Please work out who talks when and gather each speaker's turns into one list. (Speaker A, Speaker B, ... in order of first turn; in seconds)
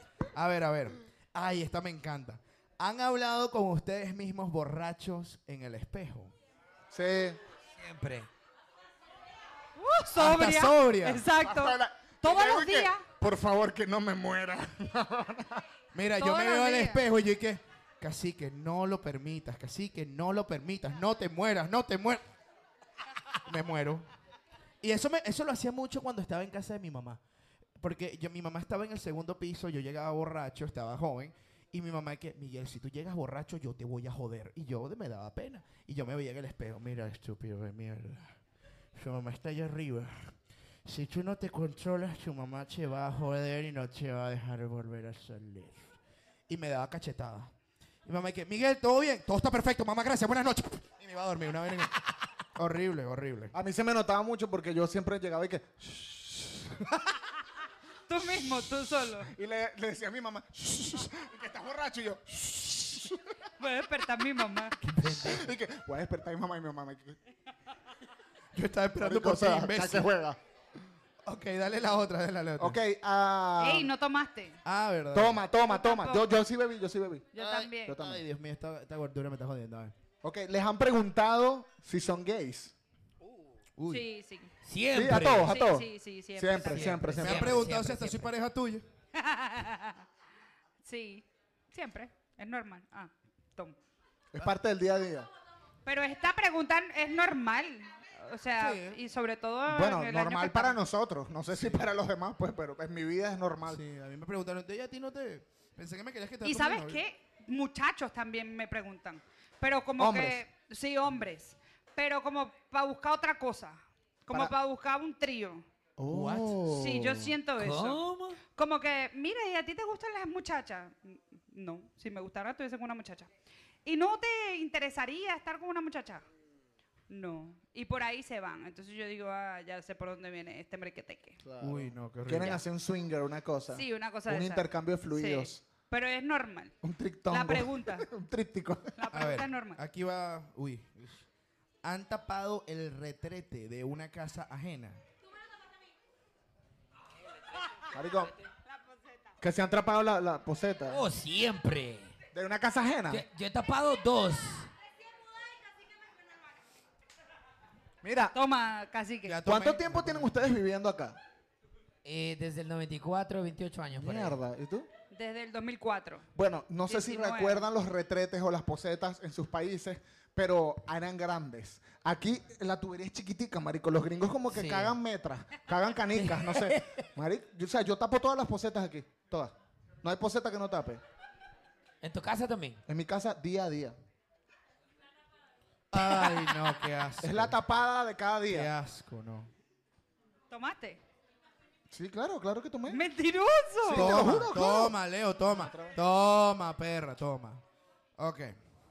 Speaker A: 0.3-6.3, 10.1-11.2, 15.9-22.2, 23.4-24.1, 24.8-27.2, 27.8-38.4, 38.9-40.3, 40.8-46.0, 46.5-47.5, 48.0-51.9, 52.5-53.5, 68.5-70.1, 71.2-72.8, 74.6-75.4, 77.3-79.9, 83.8-84.1, 86.7-88.8, 98.5-99.0, 101.5-101.8, 103.7-107.0, 116.1-117.2, 131.6-132.6, 139.1-141.3, 141.8-145.0, 159.2-160.3, 185.9-187.6, 188.5-189.5, 193.9-197.6, 198.2-198.6
Speaker B: 6.9-7.4, 11.4-15.6, 53.5-56.7, 59.3-63.2, 65.0-67.2, 69.0-70.4, 72.6-73.9, 75.1-77.3, 77.8-78.2, 80.2-82.7, 84.9-87.5, 94.3-95.3, 99.7-103.8, 110.0-110.4, 116.0-117.1, 131.4-135.6, 136.8-138.9, 147.9-148.3, 149.4-151.0, 152.3-153.2, 158.0-158.3, 159.4-161.2, 164.0-164.9, 166.3-181.0, 182.9-183.9, 187.2-188.7, 191.9-193.0, 193.8-194.9, 195.4-195.9
Speaker C: 7.8-8.3, 64.8-65.5, 84.6-85.5, 87.1-88.3, 117.6-118.4, 150.9-152.1, 153.1-154.7, 162.0-164.4, 174.5-174.9, 176.1-177.0, 182.0-182.8
Speaker D: 9.8-13.0, 16.2-17.0, 58.1-59.3, 63.6-64.7, 73.6-74.6, 75.7-76.3, 77.3-77.9, 83.9-84.5, 85.5-87.1, 89.1-90.0, 90.8-93.8, 95.8-100.8, 106.4-115.6, 116.7-118.0, 118.5-123.3, 123.8-126.2, 127.1-131.4, 133.7-136.7, 137.3-138.1, 139.0-139.8, 158.3-159.4, 165.1-166.2, 166.9-167.6, 190.5-191.0, 192.9-194.2